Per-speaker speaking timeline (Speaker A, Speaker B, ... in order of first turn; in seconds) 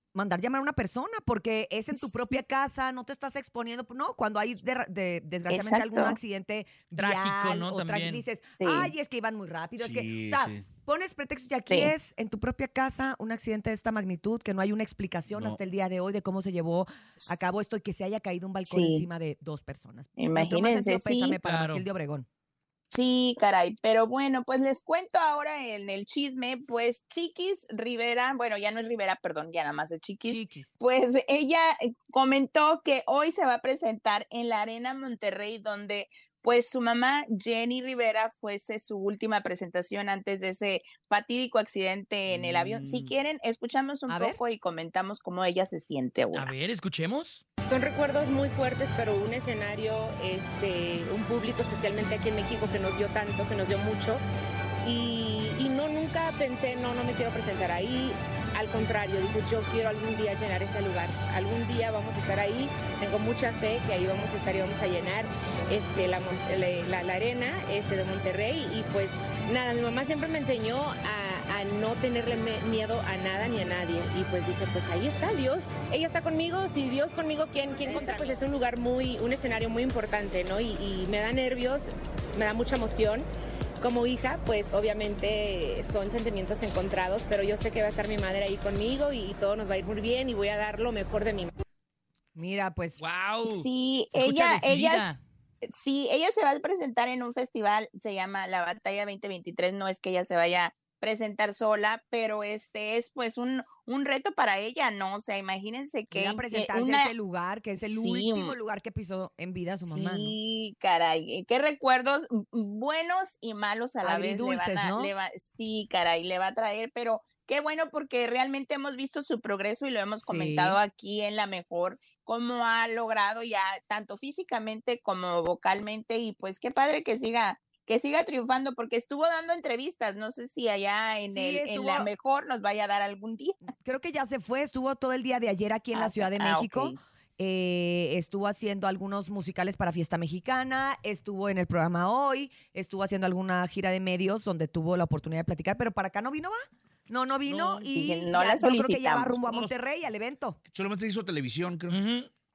Speaker A: 0.1-22.2, 30.3-30.7, 44.1-44.4, 77.8-78.4, 92.3-93.0, 106.1-110.3, 114.0-115.1, 120.2-120.8, 131.3-132.1, 133.8-150.6
Speaker B: 1.9-2.4, 5.5-6.2, 8.6-8.9, 17.2-17.6, 18.7-19.1, 20.2-21.4, 22.9-46.5, 93.4-107.1, 107.8-108.5, 109.8-133.6, 135.9-137.0, 147.9-149.7
Speaker C: 7.0-8.2, 21.4-21.8, 46.3-47.4, 93.0-95.2, 151.9-152.3
Speaker D: 9.8-10.6, 15.3-15.6, 150.7-152.0
Speaker E: 47.7-54.2, 54.8-83.3, 83.8-91.5